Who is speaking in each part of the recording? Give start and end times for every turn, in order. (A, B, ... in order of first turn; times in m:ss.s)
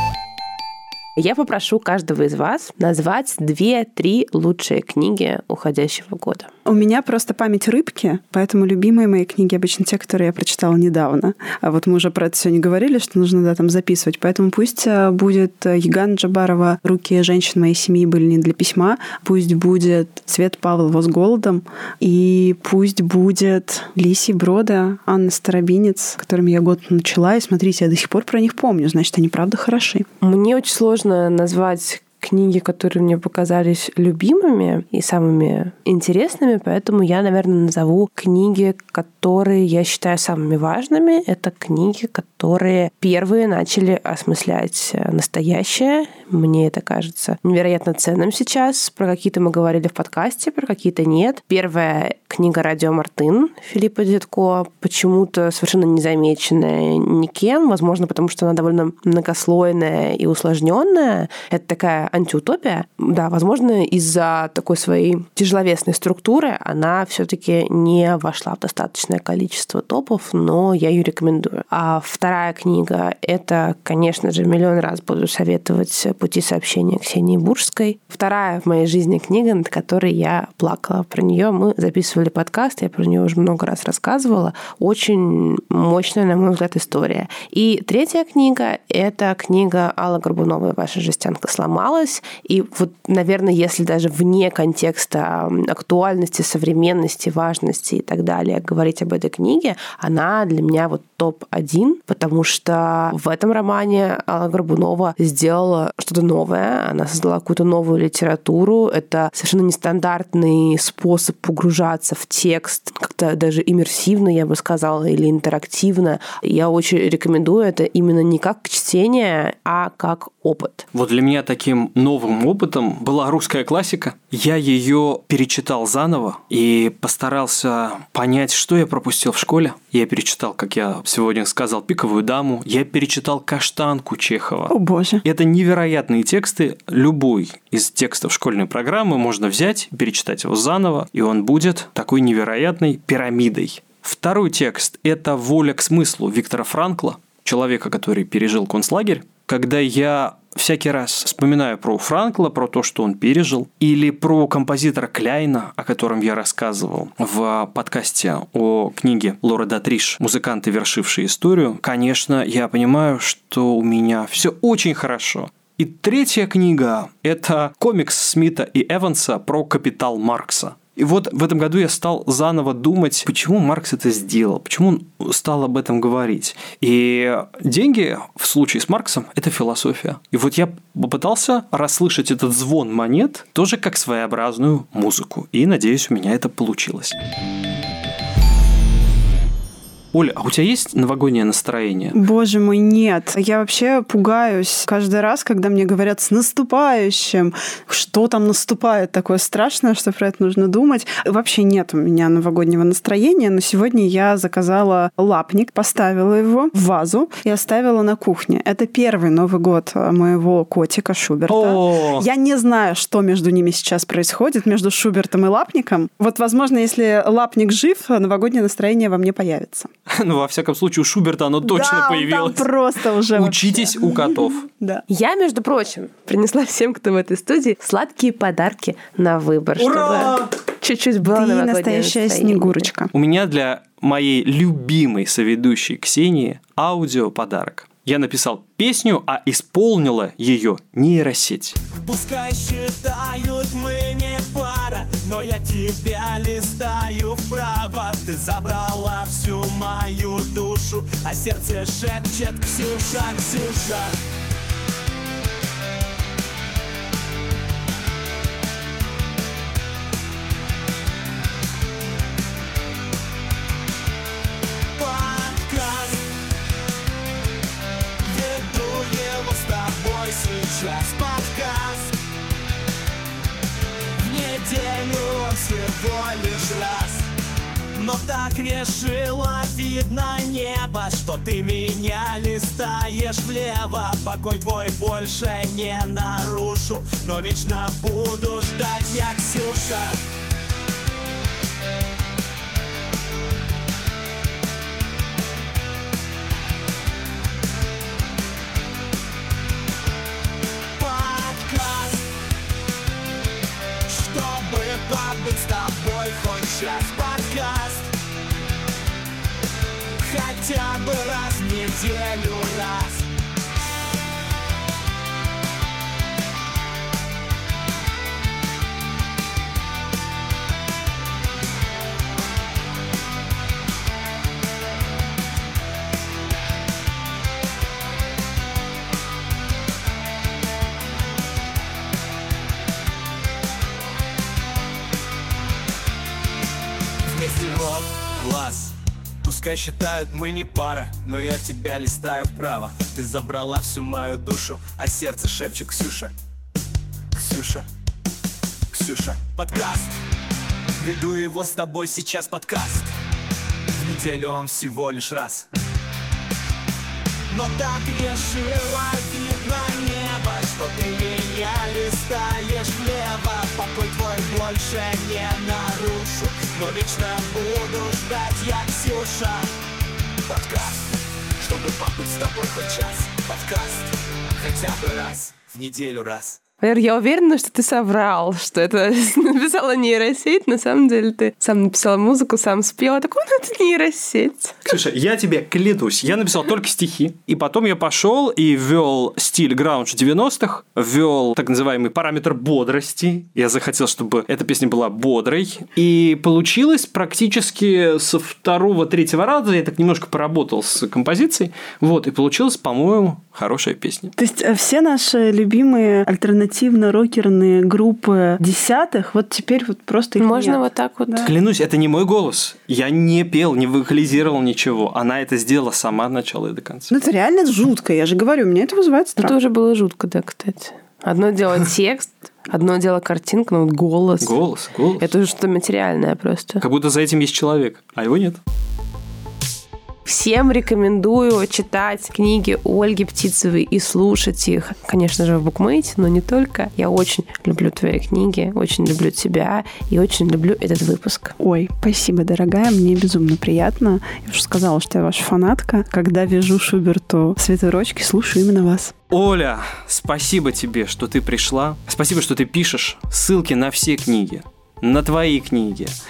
0:01.2-0:06.5 A
0:06.6-0:30.1 B
0:30.2-2:00.9 A
2:00.9-3:07.1 C
2:14.7-2:15.2 B
3:10.1-3:12.2 C
3:12.1-3:39.9 B
3:31.5-3:32.3 C
3:40.1-3:42.7 C
3:41.6-3:45.0 B
3:43.3-3:44.6 C
3:45.1-3:52.9 A
3:49.8-3:50.5 C
3:51.2-3:53.1 B
3:53.1-4:01.8 C
4:01.9-4:14.1 D
4:25.0-4:26.2 D
4:28.2-4:32.1 D
4:34.2-4:37.3 D
4:37.9-4:50.2 D
5:01.0-5:02.3 D
5:04.1-5:08.1 D
5:10.2-5:13.3 D
5:37.2-5:46.3 D
5:47.4-5:47.8 D
5:48.9-5:50.1 D
5:51.0-5:53.1 D
5:53.9-5:55.7 D
5:57.5-6:09.7 D
6:10.4-6:16.6 D
6:16.8-6:24.9 A
6:24.8-6:44.3 C
6:44.4-6:51.5 B
6:50.4-6:51.5 A
6:51.4-6:57.1 C
6:57.1-6:59.5 B
6:59.4-7:04.6 A
7:04.4-7:05.3 C
7:05.2-7:06.8 A
7:06.8-7:08.6 C
7:10.2-7:21.5 A
7:21.6-7:29.1 B
7:29.3-7:36.2 C